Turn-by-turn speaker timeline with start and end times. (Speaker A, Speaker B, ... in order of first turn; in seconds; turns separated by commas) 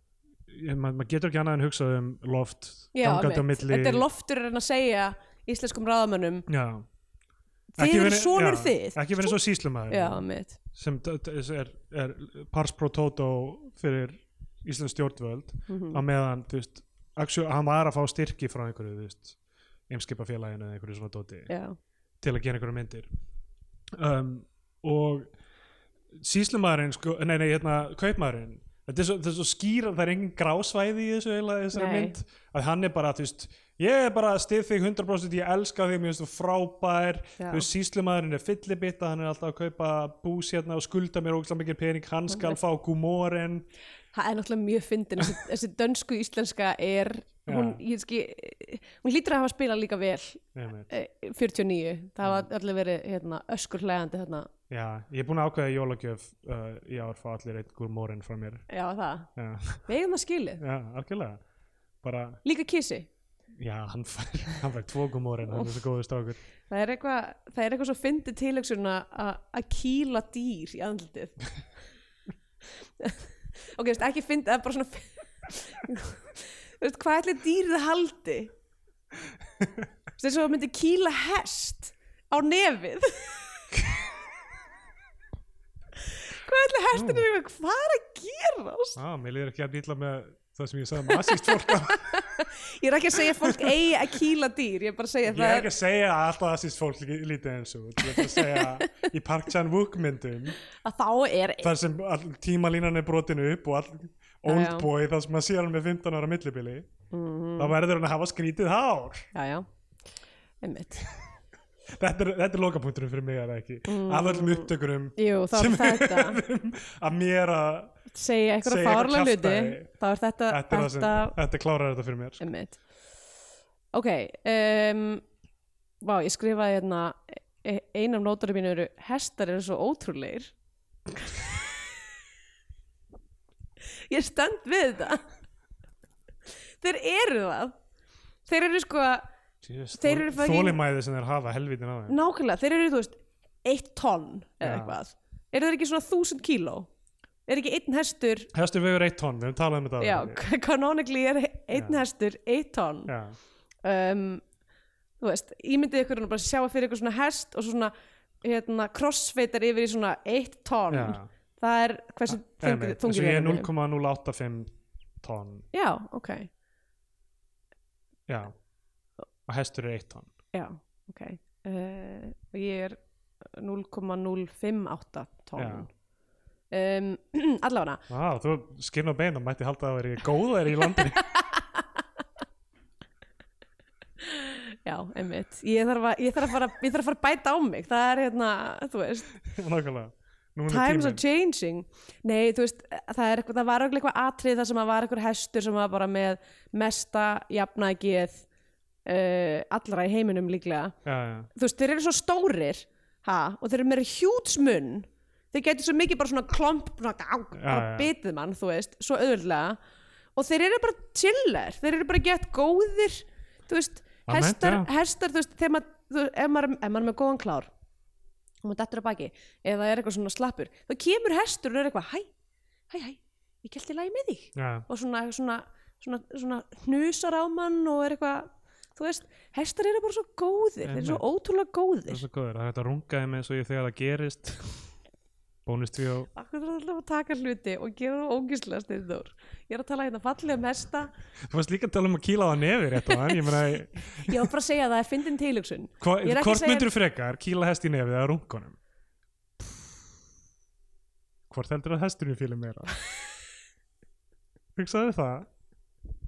Speaker A: 0.5-4.0, Speaker B: 2.9-6.5, Speaker A: 6.5-6.8, Speaker B: 7.8-9.4, Speaker A: 7.8-19.4, Speaker B: 9.9-10.6, Speaker B: 15.7-16.0, Speaker A: 19.9-21.5, Speaker B: 21.5-21.8, Speaker A: 22.2-23.1, Speaker A: 24.0-25.3, Speaker A: 26.1-43.7, Speaker B: 31.7-32.1, Speaker B: 37.4-37.7, Speaker B: 42.3-42.6, Speaker B: 44.1-54.5, Speaker A: 47.5-47.8, Speaker A: 50.5-50.9, Speaker A: 54.7-58.6, Speaker B: 58.7-59.3, Speaker A: 59.4-59.9, Speaker B: 59.9-60.6, Speaker A: 60.6-61.4, Speaker A: 62.0-62.4, Speaker B: 62.4-63.1, Speaker A: 63.6-66.4, Speaker B: 66.7-71.4, Speaker B: 73.0-78.5, Speaker A: 79.6-79.8, Speaker B: 80.2-83.7, Speaker B: 86.0-89.0, Speaker A: 86.9-87.2, Speaker A: 89.0-92.3, Speaker B: 91.1-95.7, Speaker A: 93.4-93.9, Speaker A: 95.3-100.6, Speaker B: 98.0-98.9, Speaker B: 100.7-101.7, Speaker A: 101.6-106.9, Speaker B: 104.5-104.9, Speaker B: 107.1-107.7, Speaker A: 107.6-109.3, Speaker B: 109.3-109.7, Speaker B: 110.6-111.0, Speaker A: 112.0-118.0, Speaker B: 113.9-116.4, Speaker B: 118.1-121.3, Speaker A: 118.6-119.9, Speaker A: 120.5-122.4, Speaker B: 122.4-122.8, Speaker B: 123.9-125.2, Speaker B: 126.0-130.5, Speaker B: 131.1-131.9, Speaker B: 133.9-135.2, Speaker B: 136.8-137.8, Speaker B: 138.4-139.2, Speaker A: 139.6-142.2, Speaker B: 140.0-140.8, Speaker B: 142.1-146.9, Speaker A: 144.6-145.0, Speaker B: 147.5-148.5, Speaker A: 148.5-150.4, Speaker B: 150.0-153.1, Speaker A: 151.7-152.0, Speaker A: 153.1-153.4, Speaker B: 153.8-154.4, Speaker B: 155.2-163.7, Speaker A: 160.9-161.3, Speaker A: 162.3-165.7, Speaker B: 165.7-166.5, Speaker A: 168.3-168.5, Speaker A: 169.4-170.3, Speaker B: 170.5-175.9, Speaker A: 175.6-175.9, Speaker B: 176.7-178.0, Speaker A: 178.1-181.3, Speaker B: 180.9-182.0, Speaker B: 184.2-189.3, Speaker A: 189.4-191.2, Speaker B: 190.7-198.4, Speaker B: 199.0-200.9, Speaker A: 201.0-201.5, Speaker B: 201.5-209.8, Speaker A: 207.5-208.1, Speaker B: 210.3-217.7, Speaker A: 214.2-214.9, Speaker B: 218.6-222.3, Speaker B: 222.9-232.2, Speaker A: 224.5-224.9, Speaker A: 230.8-231.2, Speaker A: 232.1-234.9, Speaker A: 235.6-236.3, Speaker B: 236.3-241.1, Speaker A: 241.5-244.5, Speaker B: 243.1-243.5, Speaker B: 244.2-246.9, Speaker A: 246.0-248.8, Speaker A: 251.5-253.0, Speaker A: 254.8-255.5